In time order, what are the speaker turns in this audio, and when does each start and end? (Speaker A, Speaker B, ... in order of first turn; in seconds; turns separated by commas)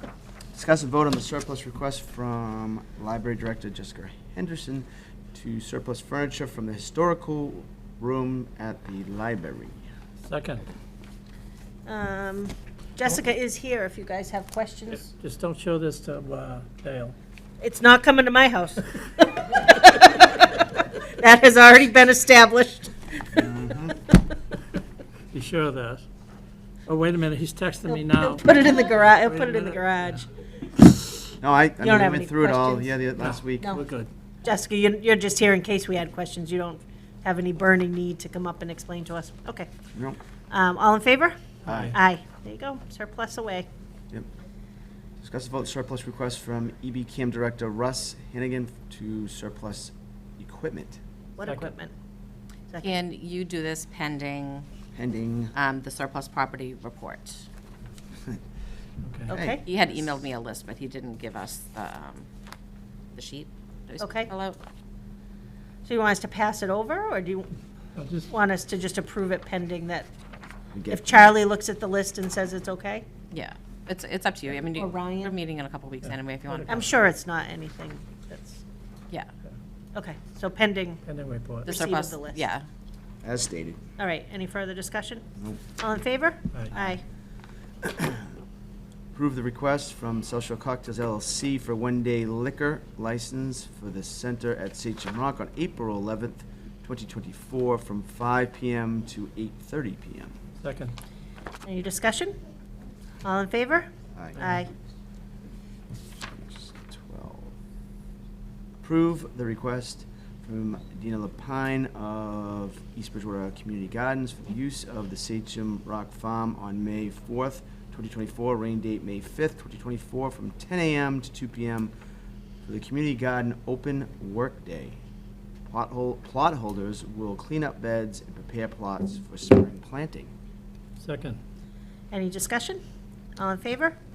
Speaker A: 0.5-9.8, Speaker B: 10.2-10.6, Speaker C: 11.8-15.1, Speaker B: 15.0-17.1, Speaker C: 17.6-23.7, Speaker A: 23.4-23.9, Speaker B: 25.3-26.0, Speaker B: 26.9-28.4, Speaker C: 27.9-30.2, Speaker B: 29.4-29.7, Speaker A: 31.4-33.8, Speaker C: 31.8-33.0, Speaker B: 33.3-34.1, Speaker C: 34.4-39.7, Speaker C: 40.5-43.7, Speaker A: 41.7-41.9, Speaker B: 41.7-41.9, Speaker A: 45.2-51.0, Speaker C: 51.4-51.9, Speaker C: 52.7-52.9, Speaker D: 52.8-54.6, Speaker A: 54.9-55.5, Speaker D: 55.5-57.4, Speaker B: 59.0-59.3, Speaker C: 59.3-59.6, Speaker A: 59.3-59.8, Speaker D: 59.6-62.2, Speaker D: 63.1-64.6, Speaker C: 64.0-64.3, Speaker C: 65.8-67.5, Speaker B: 68.0-68.3, Speaker C: 68.3-70.1, Speaker A: 70.7-71.2, Speaker C: 70.9-73.0, Speaker D: 73.3-76.8, Speaker C: 74.7-75.4, Speaker B: 76.0-77.0, Speaker C: 76.7-78.6, Speaker C: 79.9-81.0, Speaker B: 81.0-81.7, Speaker C: 81.6-82.5, Speaker D: 81.7-82.7, Speaker A: 83.2-83.8, Speaker C: 84.0-85.2, Speaker C: 85.8-87.0, Speaker A: 87.8-88.2, Speaker A: 89.1-100.3, Speaker B: 100.6-100.9, Speaker C: 101.6-102.3, Speaker C: 103.2-104.7, Speaker A: 104.1-104.4, Speaker A: 106.2-107.5, Speaker A: 108.8-121.9, Speaker A: 122.7-125.0, Speaker A: 125.7-130.3, Speaker B: 131.0-131.4, Speaker C: 132.1-132.8, Speaker C: 133.4-133.9